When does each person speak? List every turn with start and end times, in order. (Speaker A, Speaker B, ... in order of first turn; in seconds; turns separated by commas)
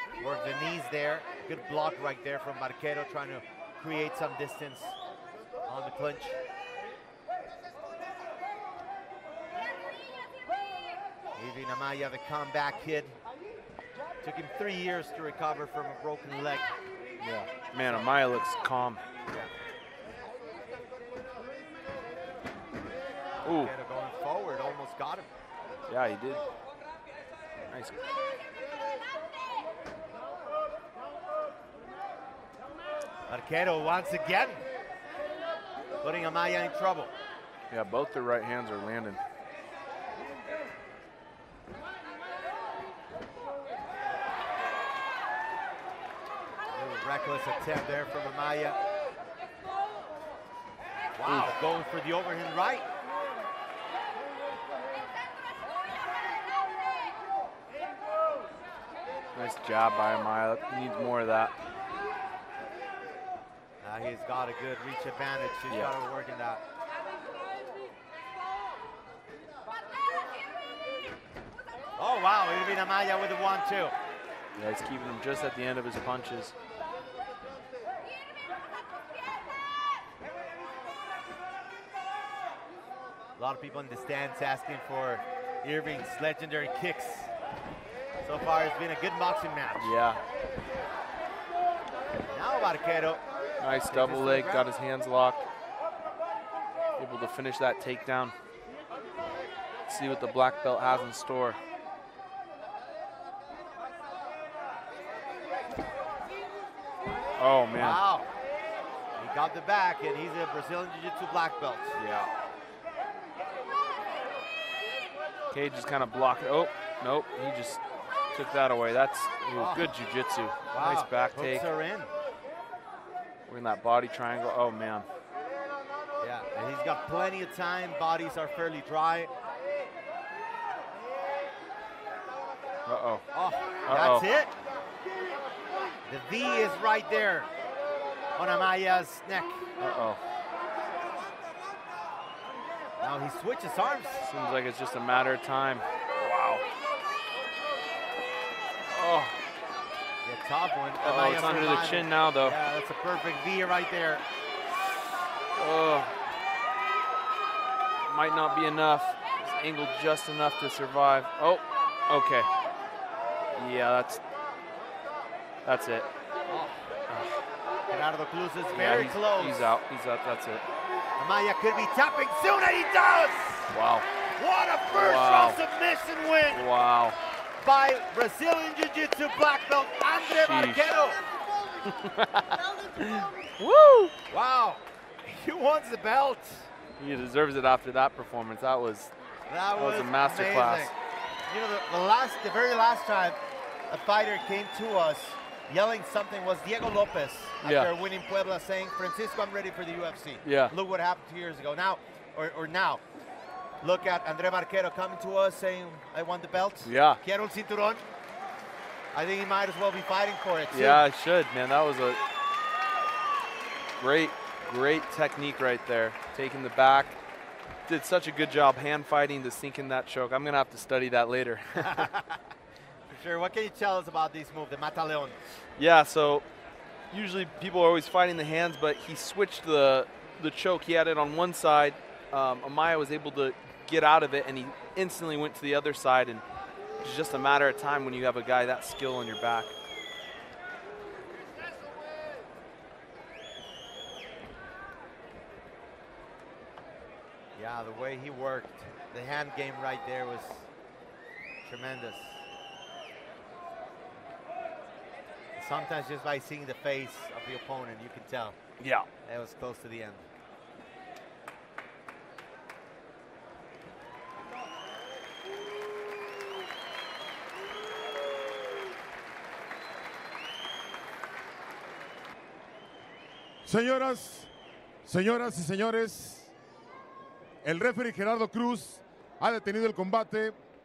Speaker A: 0.2-5.0, Speaker A: 5.7-6.4, Speaker A: 11.3-13.2, Speaker A: 14.2-16.7, Speaker B: 17.2-19.0, Speaker A: 17.8-18.1, Speaker B: 23.4-23.7, Speaker A: 23.4-25.3, Speaker B: 25.9-26.4, Speaker B: 27.7-28.0, Speaker A: 33.3-34.6, Speaker A: 36.0-37.1, Speaker B: 37.7-39.2, Speaker A: 46.7-48.8, Speaker A: 51.2-52.9, Speaker B: 51.2-51.5, Speaker B: 59.3-61.6, Speaker A: 63.8-66.6, Speaker A: 72.0-74.0, Speaker B: 74.5-76.5, Speaker A: 83.4-87.3, Speaker A: 88.2-89.9, Speaker B: 89.8-90.2, Speaker A: 92.3-93.2, Speaker B: 93.6-95.4, Speaker A: 93.8-94.7, Speaker B: 97.0-98.3, Speaker B: 99.9-101.6, Speaker B: 107.4-108.0, Speaker A: 107.7-108.3, Speaker A: 109.2-112.0, Speaker B: 112.0-112.3, Speaker B: 115.5-117.8, Speaker B: 118.3-121.6, Speaker A: 119.5-119.9, Speaker A: 120.7-122.1, Speaker B: 123.5-125.1, Speaker A: 126.2-129.3, Speaker B: 132.8-133.2, Speaker A: 133.3-134.5, Speaker B: 133.8-134.2, Speaker A: 136.1-137.5, Speaker A: 138.3-139.7, Speaker B: 139.8-140.2, Speaker A: 143.0-144.3, Speaker B: 144.2-146.6, Speaker B: 148.9-149.3, Speaker A: 150.2-154.2, Speaker B: 151.0-152.6, Speaker B: 155.5-156.1, Speaker B: 158.1-162.5, Speaker B: 163.5-164.2, Speaker B: 165.7-166.1, Speaker A: 166.5-166.9, Speaker B: 167.1-167.4, Speaker A: 167.9-169.8, Speaker B: 168.7-170.6, Speaker A: 171.2-173.7, Speaker B: 173.7-174.1, Speaker A: 174.3-176.6, Speaker B: 174.9-175.6, Speaker B: 176.5-177.2, Speaker A: 177.6-181.2, Speaker B: 180.2-181.1, Speaker B: 181.8-184.1, Speaker A: 184.3-186.7, Speaker B: 187.0-189.1, Speaker A: 189.5-190.9, Speaker B: 189.7-190.9, Speaker A: 191.5-193.4, Speaker A: 193.9-203.0, Speaker B: 197.6-197.9, Speaker B: 200.4-200.7, Speaker A: 203.8-208.0, Speaker B: 206.8-207.2, Speaker A: 209.1-211.0, Speaker B: 210.7-212.2, Speaker B: 214.0-217.2, Speaker B: 217.9-222.1, Speaker A: 221.8-222.4, Speaker A: 223.1-225.4, Speaker B: 225.8-226.4, Speaker B: 227.1-236.4, Speaker B: 237.0-239.7, Speaker A: 247.6-250.7, Speaker A: 251.6-252.4, Speaker A: 255.5-258.6, Speaker B: 258.8-259.1, Speaker A: 259.2-260.2, Speaker C: 273.6-274.5, Speaker C: 275.0-276.5, Speaker C: 277.6-280.5